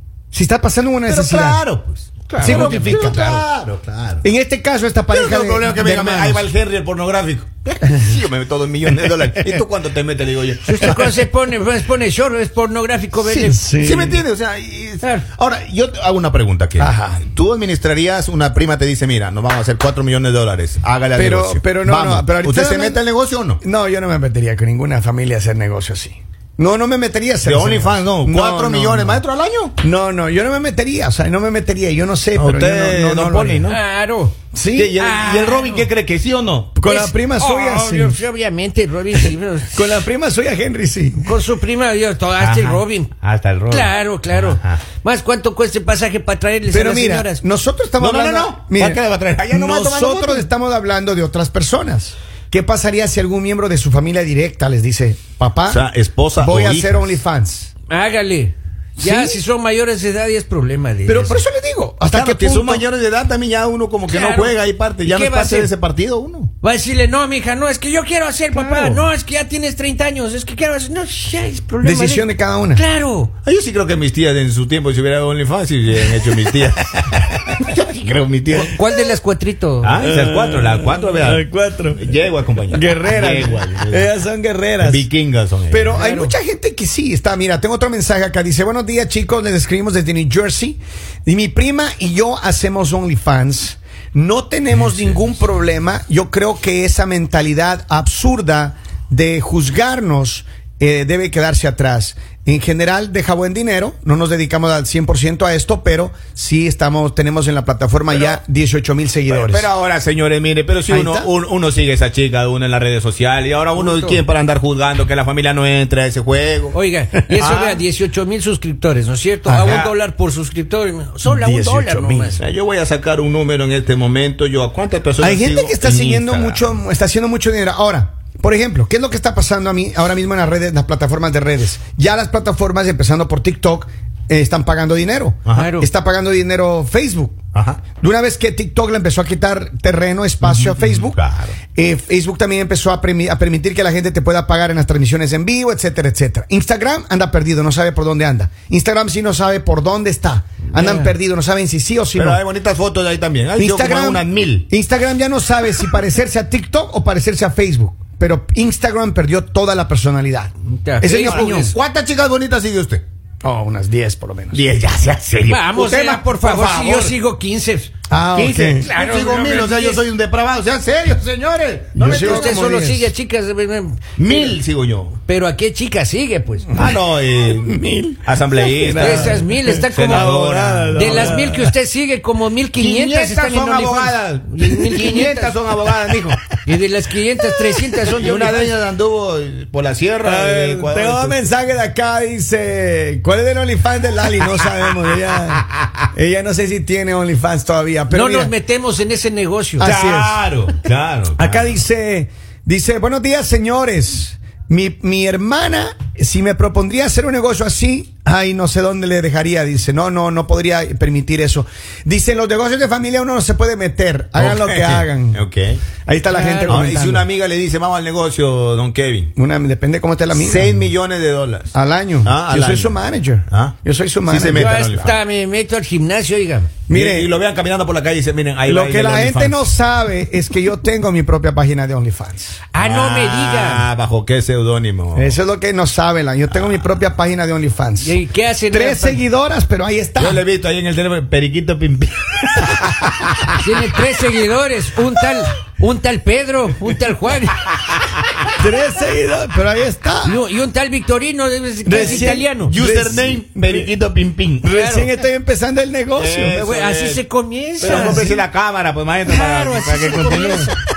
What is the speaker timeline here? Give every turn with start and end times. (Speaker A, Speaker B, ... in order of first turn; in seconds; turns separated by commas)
Speaker A: 0.3-1.6, Speaker B: 1.1-4.3, Speaker C: 2.3-3.4, Speaker A: 2.4-3.3, Speaker A: 4.2-6.5, Speaker B: 5.1-11.2, Speaker A: 8.9-9.6, Speaker C: 10.6-13.7, Speaker A: 13.2-14.2, Speaker B: 13.7-23.6, Speaker A: 16.8-17.2, Speaker A: 21.1-23.0, Speaker A: 23.6-29.2, Speaker B: 27.4-29.8, Speaker A: 29.8-33.7, Speaker B: 32.4-33.8, Speaker C: 33.7-34.4, Speaker A: 34.5-35.0, Speaker B: 34.8-36.8, Speaker C: 35.0-35.9, Speaker A: 36.8-38.2, Speaker C: 36.9-40.0, Speaker A: 39.7-41.3, Speaker C: 41.2-43.1, Speaker B: 42.4-44.8, Speaker C: 43.7-47.4, Speaker A: 46.7-55.8, Speaker B: 48.0-50.5, Speaker B: 55.7-57.1, Speaker A: 56.4-57.7, Speaker C: 57.9-61.4, Speaker A: 59.0-59.4, Speaker A: 61.1-62.9, Speaker B: 62.1-66.5, Speaker C: 64.1-65.7, Speaker C: 66.6-73.3, Speaker A: 68.5-69.1, Speaker A: 71.8-72.8, Speaker B: 73.4-78.7, Speaker C: 78.5-80.1, Speaker B: 79.8-84.1, Speaker A: 80.0-82.0, Speaker A: 82.7-85.1, Speaker B: 84.8-86.0, Speaker A: 85.7-109.7, Speaker C: 85.9-86.3, Speaker B: 94.8-95.1, Speaker B: 108.1-108.4, Speaker B: 109.3-116.8, Speaker A: 110.9-111.3, Speaker C: 113.8-114.2, Speaker C: 116.7-122.4, Speaker B: 117.4-117.8, Speaker A: 119.5-119.8, Speaker B: 119.6-119.9, Speaker A: 121.2-122.3, Speaker B: 122.4-126.7, Speaker A: 125.2-137.4, Speaker B: 135.4-135.7, Speaker C: 135.5-135.9, Speaker B: 137.5-137.8, Speaker A: 138.0-141.2, Speaker B: 140.4-141.6, Speaker A: 141.7-152.4, Speaker C: 150.7-151.1, Speaker B: 152.1-154.7, Speaker A: 153.6-161.7, Speaker C: 160.7-161.7, Speaker B: 161.2-163.0, Speaker A: 163.4-164.6, Speaker B: 164.5-166.7, Speaker C: 165.5-167.9, Speaker A: 166.4-167.2, Speaker A: 168.1-168.9, Speaker B: 168.3-172.6, Speaker C: 168.8-170.0, Speaker A: 172.0-173.1, Speaker C: 172.0-174.5, Speaker B: 174.2-175.2, Speaker C: 175.3-176.9, Speaker A: 176.7-177.0, Speaker B: 176.8-181.4, Speaker A: 177.5-181.7, Speaker C: 178.9-180.3, Speaker C: 180.9-185.6, Speaker B: 182.8-186.4, Speaker C: 186.7-188.7, Speaker A: 187.7-188.0, Speaker B: 188.0-191.4, Speaker A: 190.2-198.5, Speaker C: 198.1-199.9, Speaker A: 199.8-200.4, Speaker B: 199.8-201.8, Speaker A: 201.4-215.4, Speaker B: 214.4-215.8, Speaker A: 216.1-217.3, Speaker C: 216.3-216.8, Speaker B: 216.7-219.3, Speaker A: 219.4-220.8, Speaker B: 220.3-225.2, Speaker A: 221.7-225.2, Speaker C: 224.5-226.7, Speaker A: 226.9-227.3, Speaker B: 226.9-229.6, Speaker A: 228.7-232.6, Speaker C: 232.7-233.9, Speaker B: 232.8-235.3, Speaker A: 235.2-238.2, Speaker C: 238.0-239.2, Speaker A: 238.7-240.4, Speaker B: 240.2-243.7, Speaker C: 243.6-247.6, Speaker A: 248.6-250.4, Speaker C: 250.2-252.8, Speaker A: 251.8-253.9, Speaker B: 251.9-254.8, Speaker A: 254.6-256.6, Speaker C: 254.7-255.1, Speaker B: 256.1-257.2, Speaker C: 256.5-258.4, Speaker B: 257.8-260.7, Speaker C: 259.3-260.8